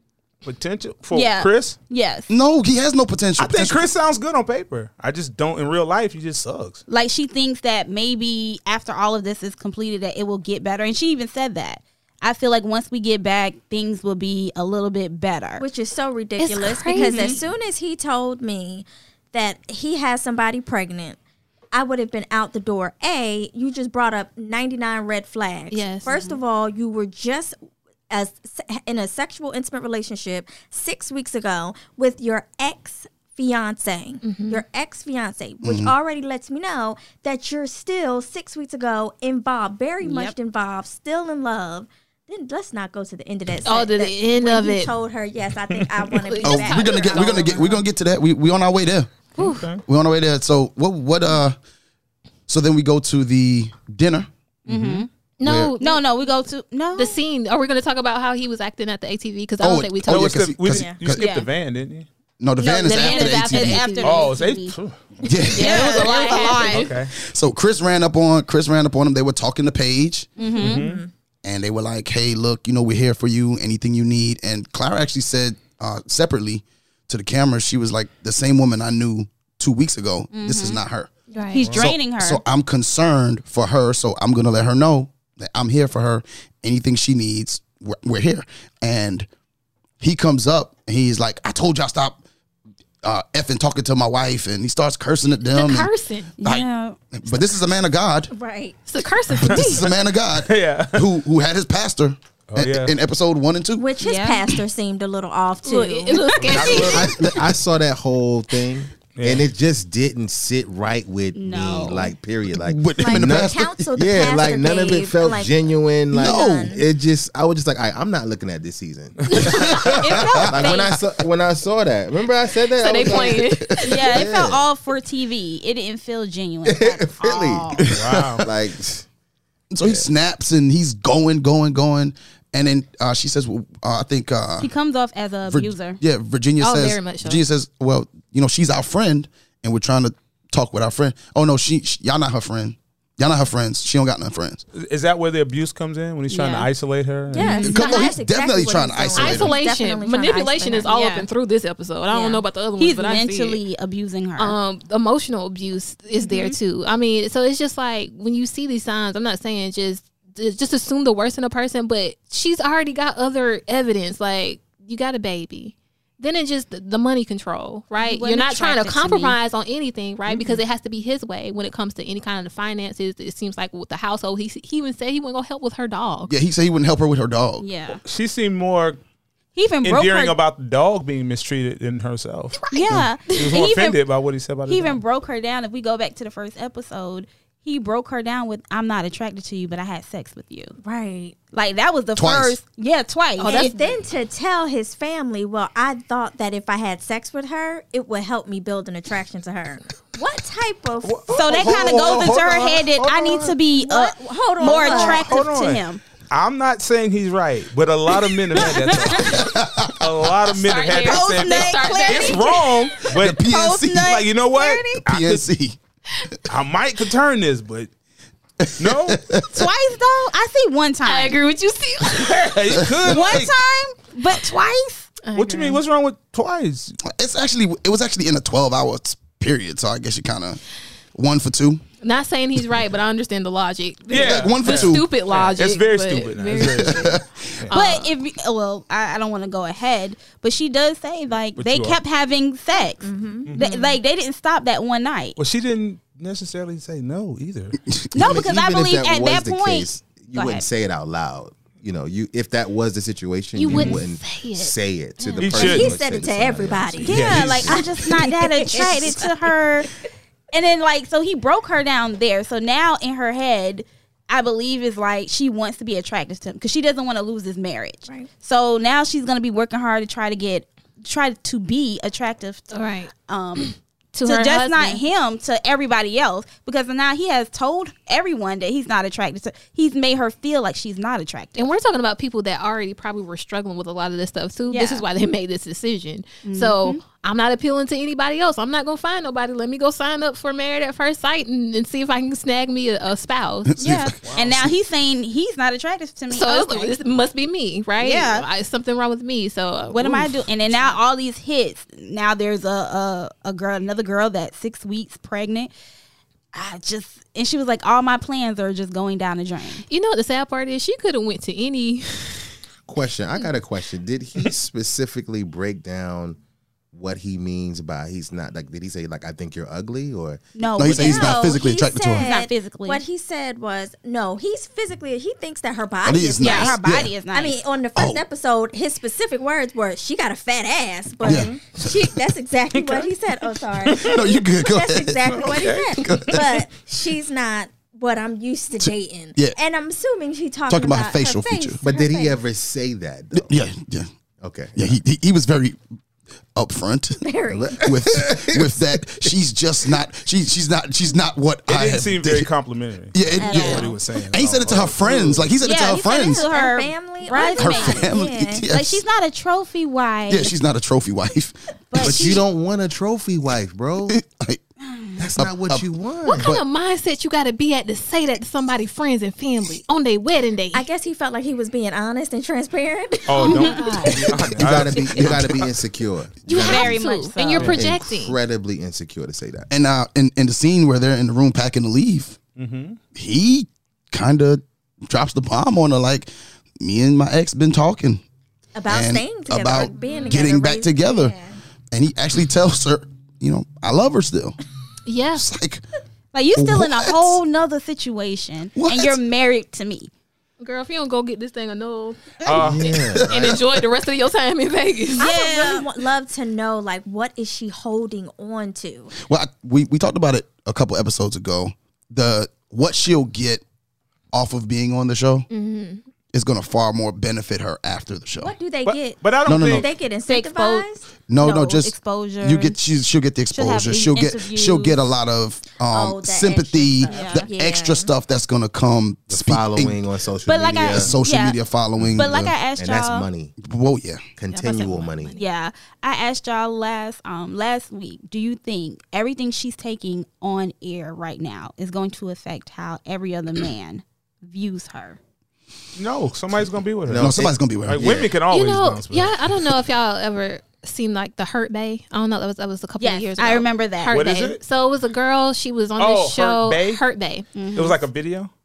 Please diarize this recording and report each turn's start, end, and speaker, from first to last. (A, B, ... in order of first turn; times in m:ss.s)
0:00.4-0:01.8 A
0:01.1-0:02.3 B
0:02.3-0:03.9 C
0:03.4-0:06.8 A
0:06.9-0:15.6 B
0:15.6-0:21.2 D
0:16.4-0:17.4 E
0:16.9-0:17.4 B
0:21.7-0:27.6 D
0:25.7-0:26.1 E
0:26.1-0:26.4 B
0:28.1-0:47.7 D
0:34.2-0:34.6 E
0:35.6-0:35.9 C
0:40.0-0:40.3 B
0:43.6-0:44.9 E
0:45.7-0:46.1 A
0:46.2-0:47.8 E
0:46.4-0:49.1 C
0:49.4-0:49.7 E
0:49.4-0:49.8 A
0:49.8-0:51.6 C
0:52.5-0:54.3 C
0:54.7-0:55.0 A
0:54.7-0:55.1 B
0:55.4-0:56.0 E
0:55.4-0:55.7 C
0:55.8-0:57.2 B
0:56.9-1:00.4 E
0:59.6-1:01.2 C
1:00.1-1:02.1 A
1:00.7-1:01.0 D
1:01.2-1:01.5 B
1:02.4-1:03.9 C
1:02.6-1:04.8 B
1:02.8-1:04.3 E
1:04.0-1:05.2 A
1:05.2-1:05.9 C
1:05.5-1:06.9 E
1:05.5-1:06.9 B
1:06.7-1:07.1 A
1:07.1-1:10.3 C
1:10.4-1:10.8 B
1:10.6-1:11.1 D
1:10.6-1:11.0 A
1:11.4-1:21.1 C
1:20.3-1:20.8 B
1:21.3-1:21.6 E
1:21.5-1:22.4 B
1:21.6-1:21.9 A
1:21.7-1:29.3 C
1:30.0-1:32.2 C
1:33.0-1:35.9 C
1:35.5-1:36.3 E
1:36.4-1:37.0 B
1:36.4-1:38.3 C
1:38.3-1:38.8 D
1:38.9-1:39.9 E
1:39.4-1:43.8 C
1:39.5-1:41.1 A
1:42.5-1:42.9 A
1:43.8-1:46.5 D
1:44.0-1:44.4 B
1:45.6-1:47.2 E
1:46.4-1:47.1 A
1:46.6-2:04.7 F
1:46.6-1:47.4 C
1:49.1-1:49.5 A
1:51.3-1:52.1 B
1:52.6-1:53.9 C
1:52.9-1:55.6 D
1:56.1-1:56.8 D
1:56.2-1:56.8 C
1:59.2-1:59.9 A
1:59.5-2:01.0 B
2:02.8-2:04.1 E
2:03.8-2:07.8 B
2:06.6-2:07.9 F
2:07.8-2:08.4 C
2:07.9-2:08.4 A
2:08.4-2:09.0 F
2:09.7-2:14.7 C
2:09.8-2:10.1 F
2:14.6-2:16.0 B
2:15.5-2:24.6 C
2:16.6-2:17.4 E
2:24.7-2:27.7 A
2:26.3-2:26.7 B
2:27.3-2:30.9 D
2:27.3-2:27.7 B
2:27.6-2:28.1 E
2:27.6-2:29.5 C
2:29.2-2:33.6 E
2:30.9-2:31.3 B
2:32.1-2:34.6 B
2:34.4-2:56.3 E
2:36.2-2:36.6 B
2:48.0-2:49.4 B
2:50.3-2:50.6 B
2:56.3-2:57.6 C
2:57.6-2:58.0 B
2:58.0-2:59.0 A
2:59.5-3:00.4 B
2:59.8-3:02.6 A
3:02.7-3:04.0 B
3:03.3-3:05.0 A
3:04.6-3:10.8 B
3:10.8-3:11.4 D
3:11.5-3:13.8 B
3:12.2-3:12.6 C
3:13.4-3:22.2 D
3:13.4-3:13.8 E
3:21.0-3:23.6 A
3:21.3-3:26.0 B
3:23.7-3:25.4 D
3:24.6-3:33.4 A
3:28.5-3:29.4 B
3:29.2-3:30.3 C
3:30.6-3:32.7 E
3:30.9-3:35.0 B
3:33.1-3:34.2 C
3:33.9-3:35.4 A
3:35.0-3:35.8 C
3:36.5-3:37.9 A
3:38.6-3:39.7 C
3:38.8-3:39.3 A
3:39.5-3:41.4 B
3:41.0-3:42.6 E
3:42.1-3:43.5 A
3:43.0-3:45.1 B
3:45.2-3:45.8 E
3:45.3-3:47.0 A
3:47.0-3:50.6 C
3:51.1-3:51.8 C
3:52.0-3:58.1 E
3:54.1-3:57.8 A
3:54.1-3:55.0 C
3:56.6-3:57.4 C
3:57.7-4:05.4 B
4:01.6-4:02.0 A
4:02.9-4:03.8 D
4:05.4-4:07.8 A
4:07.9-4:08.3 C
4:08.1-4:10.6 B
4:08.1-4:17.7 F
4:13.5-4:15.4 E
4:13.7-4:14.0 A
4:15.4-4:15.9 A
4:15.5-4:19.4 D
4:17.0-4:19.9 B
4:17.0-4:17.9 A
4:20.5-4:41.6 B
4:32.7-4:35.0 E
4:41.6-4:53.7 E
4:44.7-4:45.0 B
4:46.4-4:47.0 B
4:53.7-4:54.1 C
4:53.8-4:57.0 B
4:54.2-4:54.7 A
4:56.3-5:01.0 E
4:58.0-4:58.5 B
4:59.9-5:05.7 B
5:06.5-5:09.8 B
5:09.9-5:12.5 E
5:12.9-5:16.4 F
5:16.9-5:20.5 F
5:20.6-5:21.6 B
5:20.8-5:22.3 C
5:20.8-5:42.4 D
5:22.2-5:23.0 B
5:26.0-5:27.1 C
5:26.4-5:27.6 B
5:28.0-5:28.2 C
5:31.2-5:31.6 C
5:32.7-5:33.1 A
5:33.8-5:34.2 A
5:34.0-5:36.5 C
5:35.3-5:36.4 A
5:38.8-5:39.6 C
5:40.7-5:41.8 C
5:41.8-5:43.5 F
5:43.3-5:44.1 C
5:44.4-5:45.0 F
5:44.7-5:45.8 C
5:46.5-5:47.2 C
5:47.2-5:47.8 D
5:47.5-5:48.8 F
5:47.8-5:52.5 C
5:51.7-5:55.5 A
5:53.1-5:56.4 C
5:53.4-5:53.9 D
5:53.5-5:53.8 B
5:55.6-5:58.2 B
5:56.1-5:58.6 D
5:57.5-5:59.0 C
5:58.7-6:00.5 B
6:00.3-6:02.1 C
6:01.9-6:02.4 B
6:02.0-6:04.2 F
6:04.1-6:04.6 C
6:04.8-6:05.2 B
6:05.2-6:06.6 F
6:05.4-6:06.6 C
6:06.2-6:10.8 E
6:10.7-6:13.8 D
6:13.3-6:15.6 A
6:13.4-6:14.1 B
6:13.5-6:14.2 E
6:14.4-6:17.0 F
6:14.5-6:15.7 C
6:16.4-6:18.4 E
6:16.5-6:17.8 B
6:17.6-6:19.7 F
6:19.7-6:22.4 C
6:22.6-6:23.0 A
6:23.1-6:28.2 C
6:28.7-6:31.6 D
6:28.9-6:31.3 C
6:30.0-6:30.3 E
6:31.9-6:34.6 C
6:35.0-6:35.4 E
6:35.3-6:35.8 C
6:36.3-6:40.1 B
6:36.5-6:37.4 C
6:38.8-6:39.2 C
6:40.6-6:42.4 E
6:42.4-6:43.0 A
6:42.5-6:43.6 F
6:43.1-6:43.6 C
6:43.2-6:45.3 E
6:45.2-6:49.1 D
6:45.2-6:45.9 B
6:49.2-6:53.6 C
6:54.3-6:55.5 C
6:55.5-6:56.0 E
6:56.3-6:58.5 C
6:58.4-7:01.0 D
6:58.8-6:59.9 A
6:59.4-6:59.9 C
7:00.2-7:00.9 B
7:01.3-7:10.0 C
7:01.4-7:02.8 B
7:03.5-7:05.0 B
7:05.9-7:08.1 D
7:07.0-7:07.4 B
7:09.3-7:11.1 F
7:10.4-7:11.6 B
7:10.9-7:12.5 C
7:12.0-7:13.6 F
7:12.1-7:13.3 B
7:13.6-7:14.2 C
7:14.4-7:15.4 F
7:14.5-7:15.4 E
7:15.4-7:25.2 B
7:26.0-7:27.3 A
7:27.1-7:28.3 F
7:27.2-7:28.2 C
7:27.8-7:29.4 A
7:28.5-7:37.5 E
7:33.0-7:34.2 B
7:34.1-7:34.6 A
7:36.0-7:37.0 A
7:37.5-7:38.0 B
7:37.7-7:38.5 A